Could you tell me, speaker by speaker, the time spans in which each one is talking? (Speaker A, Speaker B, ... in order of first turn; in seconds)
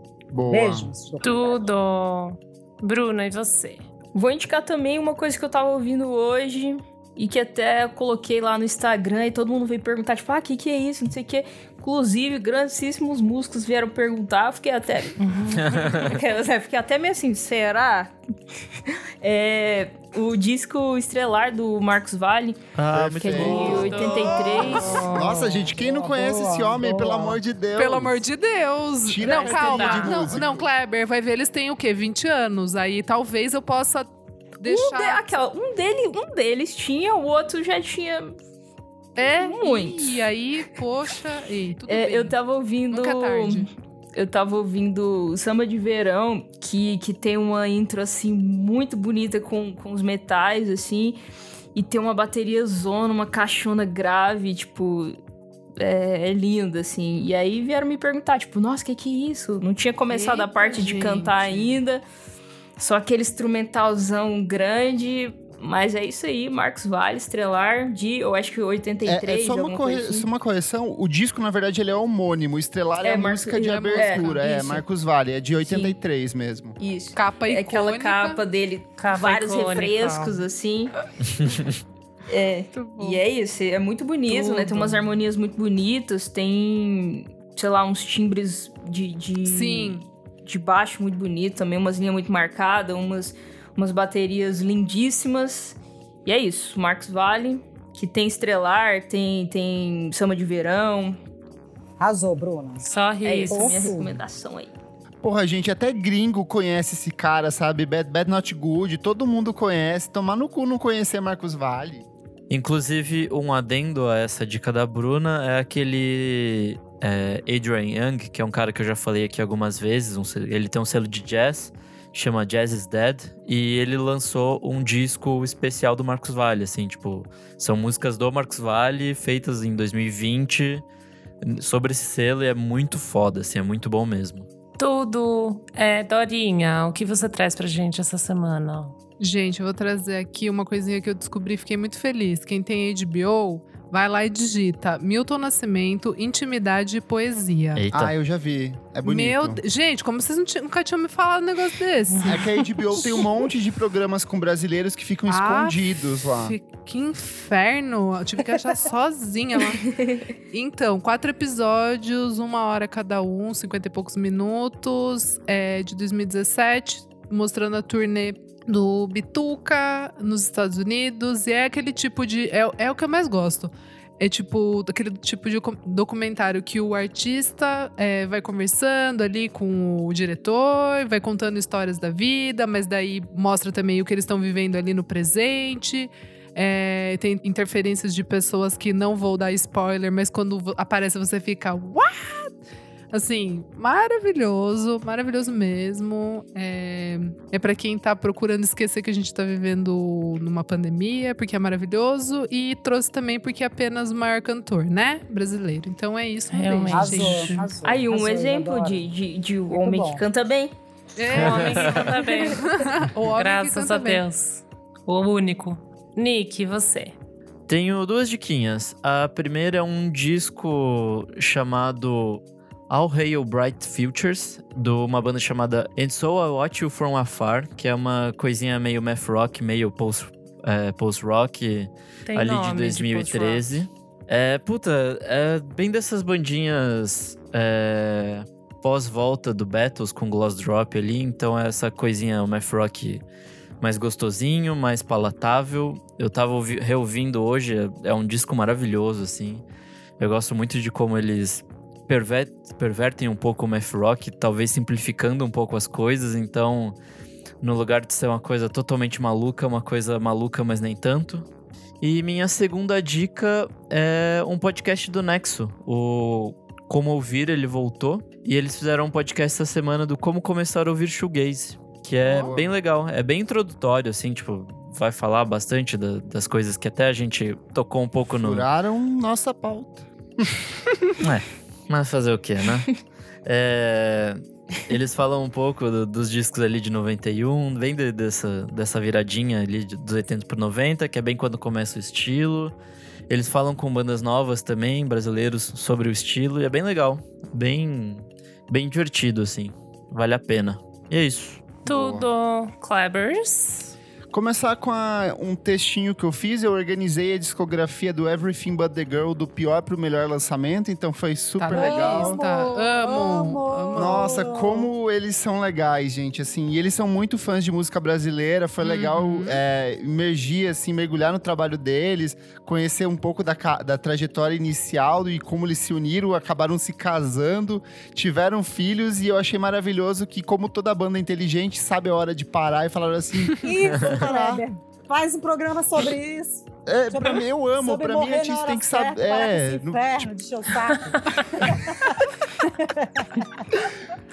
Speaker A: 0.3-0.9, 22.9-28.2, 29.0-30.7, 69.0-76.8, 105.2-112.1, 147.9-149.6, 152.2-156.6, 272.3-272.7, 278.4-280.6, 301.8-302.3, 304.3-312.4, 313.9-334.6, 336.9-340.3
Speaker B: 0.5-1.6, 24.9-27.4, 102.0-102.9, 103.5-104.2, 206.9-209.1, 209.7-210.2, 311.7-314.9, 333.6-343.8
Speaker C: 1.2-3.8, 15.2-15.8, 23.4-25.3, 29.2-30.2, 79.0-80.4, 102.8-103.9, 134.8-138.9, 152.1-152.6, 206.5-207.6, 211.3-217.2, 232.3-233.6, 301.9-303.9
Speaker D: 4.1-15.2, 15.8-18.1, 18.9-22.6, 23.2-25.1, 34.6-38.4, 39.2-40.2, 41.9-51.2, 51.7-55.2, 55.8-62.0, 62.8-70.3, 73.0-74.8, 75.6-76.0, 76.8-80.9, 82.3-101.2, 103.2-104.7, 159.8-160.2, 207.8-210.7
Speaker E: 15.6-16.1, 22.7-24.0, 112.5-130.8, 131.4-134.5, 147.7-148.1, 211.3-212.1, 217.7-243.2, 243.8-249.6, 250.2-256.9, 257.6-261.4, 262.0-278.6, 281.2-292.7, 293.3-301.8
Speaker F: 27.7-35.3, 39.1-42.4, 42.9-43.7, 60.1-61.8, 73.9-74.8, 77.1-78.4, 82.7-83.2, 84.3-85.2, 89.4-90.0, 139.2-147.9, 149.0-153.3, 155.3-159.9, 160.5-192.6, 193.1-207.7, 211.2-214.2, 272.2-272.5, 311.6-314.4, 318.8-319.6